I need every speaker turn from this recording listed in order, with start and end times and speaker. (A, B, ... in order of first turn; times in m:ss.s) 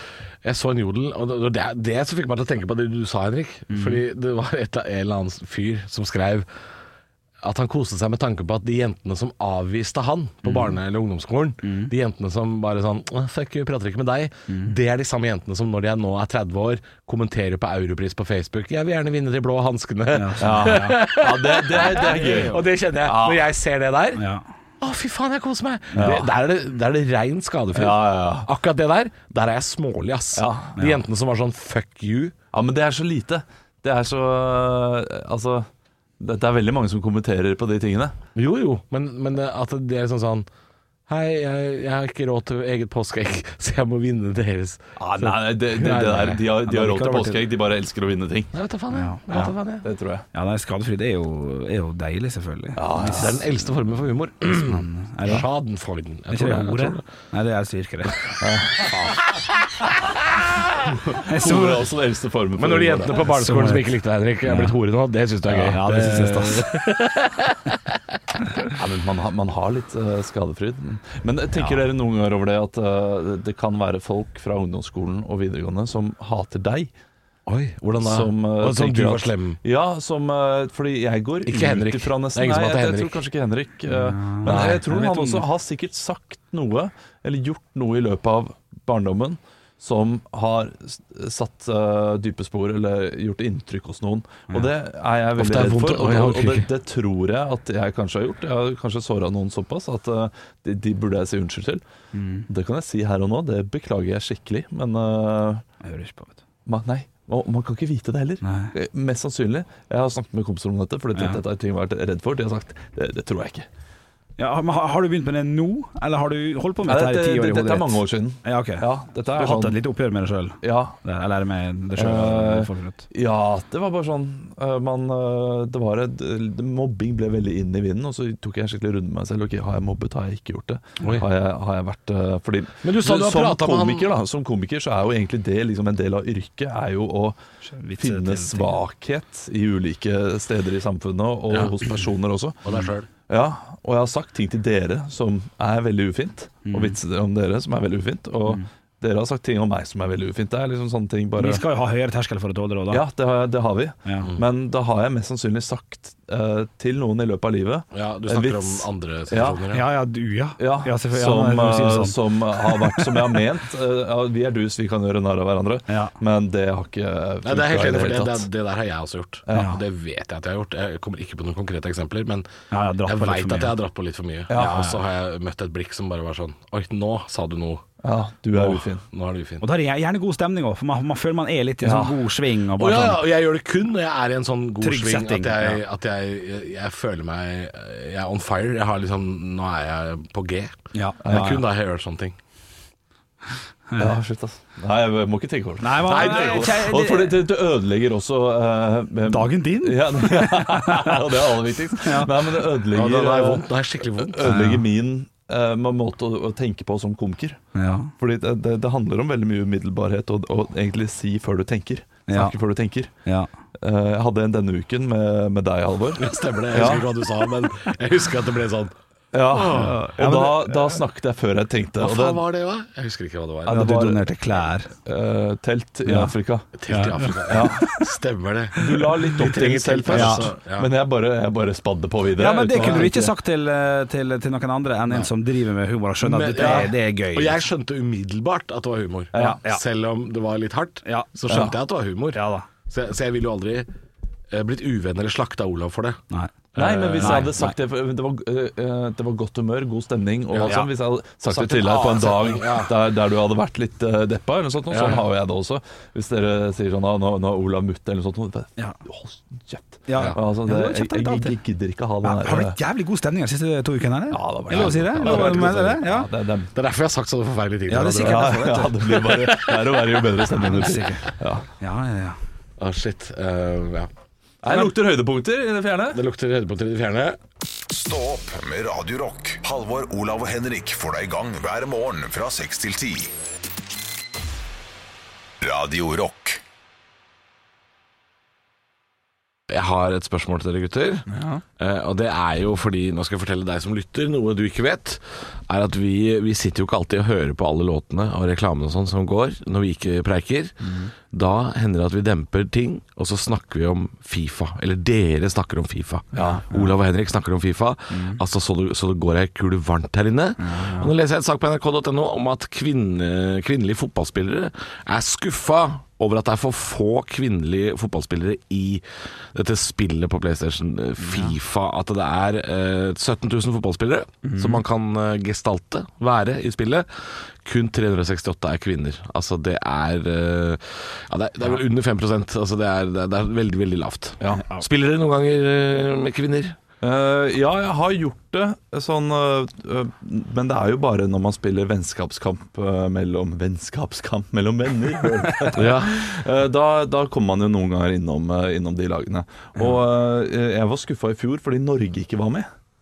0:00.4-0:06.5 A
0:03.7-0:04.0 B
0:07.4-0:24.2 A
0:10.4-0:10.8 B
0:11.6-0:11.9 B
0:20.1-0:21.0 B
0:20.4-0:23.5 C
0:21.8-0:22.6 B
0:24.2-0:24.4 B
0:24.8-0:32.3 A
0:26.0-0:26.3 C
0:27.7-0:28.5 C
0:30.4-0:30.8 C
0:32.5-0:35.7 C
0:36.2-0:38.2 C
0:38.4-0:40.5 A
0:41.1-0:46.4 A
0:45.0-0:48.5 C
0:46.6-0:47.4 B
0:48.5-0:49.9 A
0:48.9-0:49.2 B
0:49.3-0:50.2 C
0:50.3-0:53.4 B
0:52.8-0:53.4 C
0:53.0-0:57.0 A
0:54.5-0:55.5 B
0:56.3-0:58.2 B
0:58.4-0:59.0 C
0:58.8-0:59.2 A
1:01.1-1:03.3 C
1:01.1-1:01.8 B
1:02.6-1:07.8 A
1:03.3-1:03.9 B
1:04.5-1:04.8 B
1:05.5-1:06.7 B
1:08.7-1:16.9 C
1:17.5-1:19.6 A
1:18.0-1:41.8 C
1:21.5-1:23.2 A
1:23.9-1:25.4 B
1:24.5-1:24.8 A
1:35.4-1:36.7 A
1:42.1-1:42.5 B
1:42.5-1:45.6 C
1:45.8-1:46.4 B
1:46.7-1:53.7 C
1:48.4-1:48.7 B
1:51.2-1:51.4 B
1:54.4-2:03.0 B
1:56.9-1:59.8 C
2:00.6-2:01.0 C
2:02.0-2:17.4 C
2:12.8-2:14.1 A
2:17.7-2:18.8 B
2:18.0-2:22.7 C
2:21.5-2:21.8 A
2:22.6-2:23.1 A
2:23.3-2:31.6 C
2:26.6-2:27.0 B
2:31.4-2:33.0 B
2:32.9-2:39.6 C
2:34.0-2:34.3 B
2:37.9-2:39.9 A
2:39.7-2:43.4 B
2:40.6-2:48.5 C
2:45.9-2:46.2 B
2:47.4-2:52.5 A
2:49.5-2:49.7 C
2:49.5-2:49.8 B
2:52.7-2:53.8 B
2:53.0-2:57.8 A
2:54.5-2:54.9 C
2:54.5-2:55.0 B
2:58.0-2:59.0 C
2:58.5-2:59.6 A
2:59.6-3:03.2 B
3:01.8-3:02.2 C
3:02.8-3:12.4 A
3:04.8-3:05.8 B
3:10.9-3:11.6 B
3:11.2-3:11.6 C
3:13.9-3:14.2 B
3:14.0-3:27.6 C
3:15.8-3:17.4 B
3:16.1-3:16.8 A
3:19.3-3:21.2 B
3:22.0-3:22.3 B
3:22.9-3:24.6 A
3:24.4-3:24.8 B
3:27.8-3:28.1 B
3:28.2-3:33.1 C
3:32.3-3:32.6 B
3:33.8-3:37.1 C
3:36.2-3:38.9 A
3:39.3-3:42.4 C
3:39.5-3:40.0 A
3:39.6-3:41.0 B
3:42.0-3:43.8 A
3:43.7-3:44.2 C
3:43.7-3:44.9 B
3:45.0-3:46.7 C
3:46.1-3:46.3 B
3:46.8-3:50.9 A
3:46.9-3:48.0 B
3:47.5-3:47.9 C
3:48.8-3:53.3 C
3:50.1-3:50.5 B
3:52.4-3:57.6 B
3:52.8-3:53.1 A
3:56.2-4:03.9 A
3:56.6-3:56.9 C
3:59.3-3:59.6 C
3:59.4-3:59.8 B
4:01.0-4:01.7 B
4:01.5-4:01.8 C
4:02.3-4:02.7 B
4:04.5-4:06.2 A
4:06.8-4:07.6 A
4:06.8-4:22.8 C
4:07.2-4:07.8 B
4:10.5-4:10.9 A
4:11.5-4:13.0 A
4:14.9-4:15.2 A
4:20.1-4:21.6 B
4:22.2-4:26.3 B
4:24.3-4:26.7 C
4:24.7-4:25.8 A
4:26.7-4:30.0 A
4:27.9-4:29.2 B
4:28.2-4:31.7 C
4:30.5-4:32.4 B
4:32.8-4:34.1 A
4:34.6-4:36.2 C
4:36.1-4:37.4 A
4:37.9-4:43.3 D
4:45.6-4:46.6 D
4:49.7-4:51.3 A
4:51.3-4:51.6 B
4:51.8-5:36.8 A
5:00.8-5:01.1 B
5:06.3-5:06.8 C
5:08.1-5:08.4 B
5:10.6-5:11.1 B
5:21.2-5:21.6 B
5:24.4-5:24.8 B
5:34.5-5:34.9 B
5:37.0-5:52.7 C
5:45.7-5:46.2 A